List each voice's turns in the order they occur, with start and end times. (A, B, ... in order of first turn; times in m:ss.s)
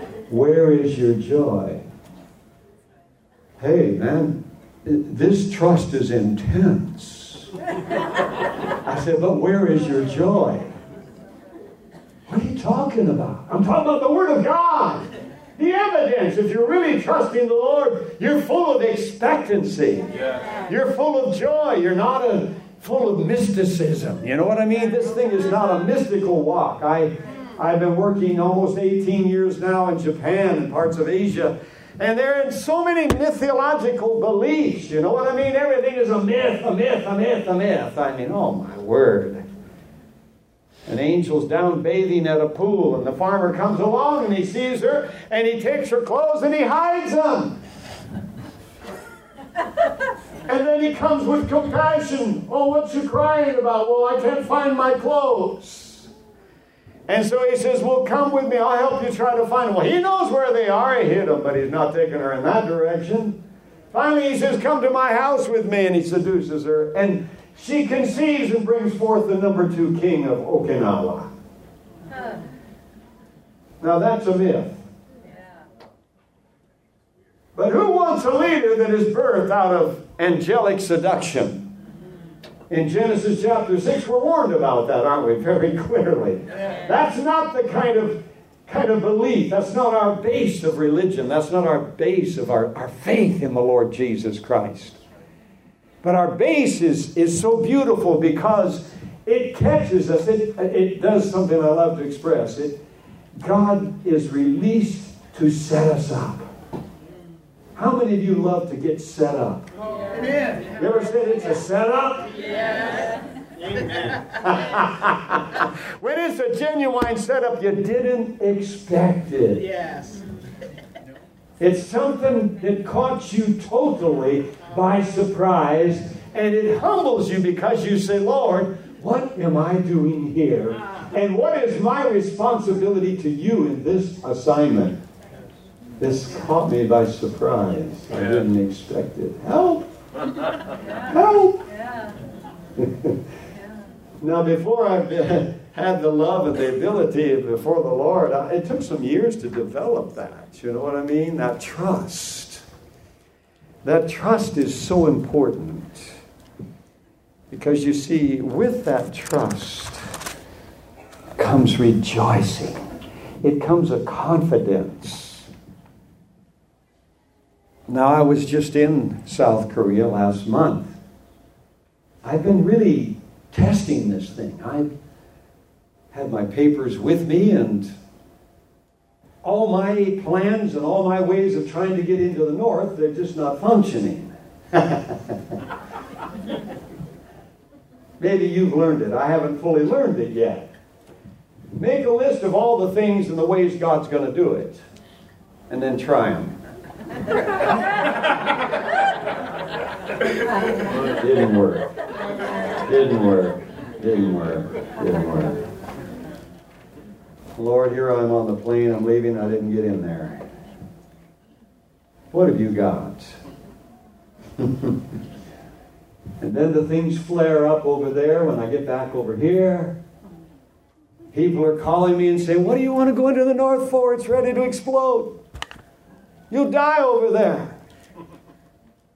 0:00.3-0:01.8 A
0:03.6-0:07.5 A
0:08.8-0:10.7 A
0:12.3-0:39.4 A
0:40.9-0:47.6 A
0:50.5-0:56.1 A
0:57.1-1:03.4 A
1:03.9-1:11.3 A
1:13.8-1:14.8 A
1:17.5-1:21.7 A
1:22.7-1:35.0 A
1:36.0-1:42.8 A
1:43.4-1:46.4 A
1:47.7-1:49.7 A
1:50.7-1:52.3 A
1:54.3-1:59.7 A
2:01.6-2:15.0 A
2:16.0-2:19.9 A
2:21.0-2:21.6 A
2:22.8-2:23.1 A
2:24.2-2:32.6 A
2:33.8-2:36.2 A
2:37.5-2:40.0 A
2:41.4-2:42.8 A
2:43.4-2:45.5 A
2:47.9-2:51.0 A
2:52.2-2:54.9 A
2:56.1-2:57.9 A
2:59.4-3:05.4 A
3:08.2-3:10.7 A
3:11.7-3:14.8 A
3:15.7-3:16.6 A
3:21.0-3:21.9 A
3:22.8-3:25.6 A
3:27.6-3:30.4 A
3:32.3-3:33.4 A
3:34.6-3:34.9 A
3:36.4-3:40.0 A
3:41.3-3:45.4 A
3:46.5-3:47.8 A